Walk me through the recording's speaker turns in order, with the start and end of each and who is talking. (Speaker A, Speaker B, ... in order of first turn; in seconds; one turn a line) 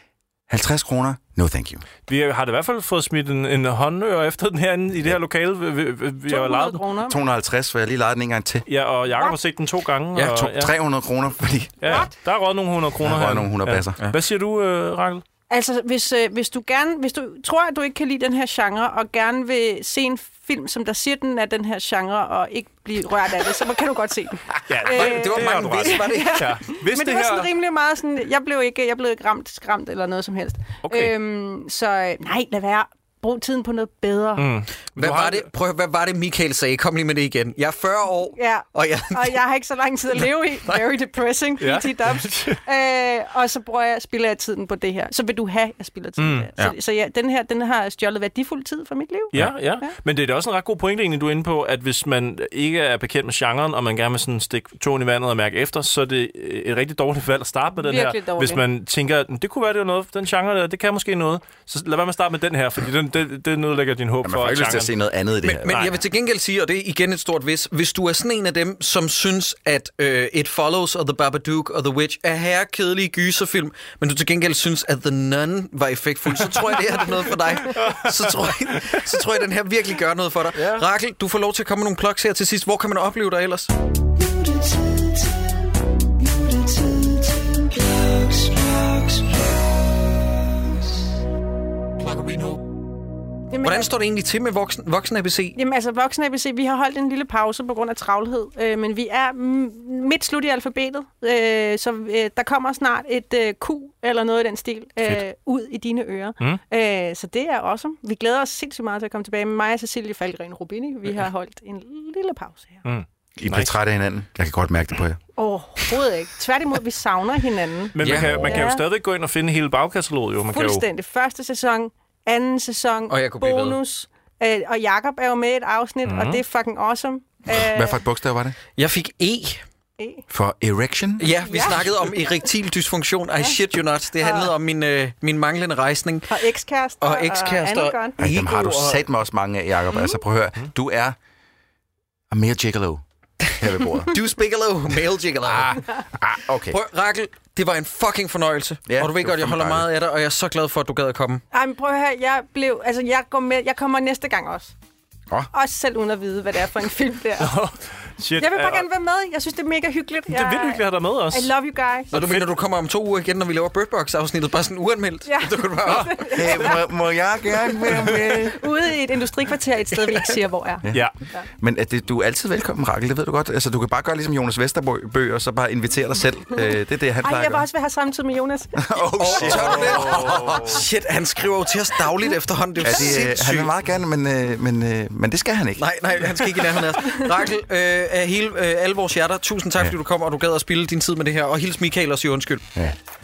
Speaker A: 0.5-1.8
Speaker B: 2.1-6.8
Speaker C: 6.3-7.2
Speaker A: 7.1-8.6
Speaker B: 8.7-10.7
Speaker C: 9.1-9.3
Speaker A: 10.2-12.0
Speaker B: 11.8-15.2
Speaker C: 11.8-12.1
Speaker A: 13.0-14.0
Speaker C: 15.5-34.5
Speaker B: 24.7-27.5
Speaker D: 24.8-26.4
Speaker B: 30.8-31.1
Speaker B: 34.4-35.5
Speaker D: 35.0-39.4
Speaker C: 38.4-49.9
Speaker D: 40.2-40.8
Speaker B: 41.6-42.6
Speaker B: 46.2-46.5
Speaker B: 49.3-64.9
Speaker C: 57.8-58.6
Speaker A: 64.2-65.9
Speaker D: 65.4-83.7
Speaker B: 65.7-66.0
Speaker B: 77.7-78.4
Speaker B: 80.6-80.8
Speaker C: 93.5-93.9
Speaker D: 93.6-95.5
Speaker C: 95.5-112.8
Speaker B: 112.8-113.8
Speaker A: 113.4-115.2
Speaker C: 115.4-118.8
Speaker B: 117.9-120.8
Speaker D: 118.0-118.4
Speaker A: 118.0-118.6
Speaker C: 120.5-128.0
Speaker D: 123.1-123.8
Speaker B: 126.0-126.4
Speaker A: 127.5-128.6
Speaker D: 128.8-129.6
Speaker C: 130.0-130.2
Speaker A: 130.3-131.9
Speaker D: 131.2-136.4
Speaker C: 131.5-131.8
Speaker C: 134.2-134.5
Speaker C: 136.3-138.2
Speaker D: 137.0-139.1
Speaker A: 138.2-141.2
Speaker C: 139.9-140.2
Speaker A: 142.3-143.0
Speaker A: 143.6-144.2
Speaker D: 144.1-145.8
Speaker A: 145.4-146.8
Speaker D: 146.7-151.4
Speaker A: 148.8-149.9
Speaker C: 151.5-154.7
Speaker C: 155.5-157.5
Speaker B: 157.4-158.9
Speaker C: 158.4-162.1
Speaker B: 160.3-161.5
Speaker B: 162.1-162.5
Speaker D: 162.1-166.4
Speaker C: 165.3-166.8
Speaker A: 166.3-168.6
Speaker C: 167.6-171.4
Speaker A: 171.6-177.6
Speaker C: 177.2-179.5
Speaker A: 178.8-180.8
Speaker D: 179.2-183.7
Speaker B: 179.5-180.7
Speaker A: 182.8-186.3
Speaker D: 185.8-192.7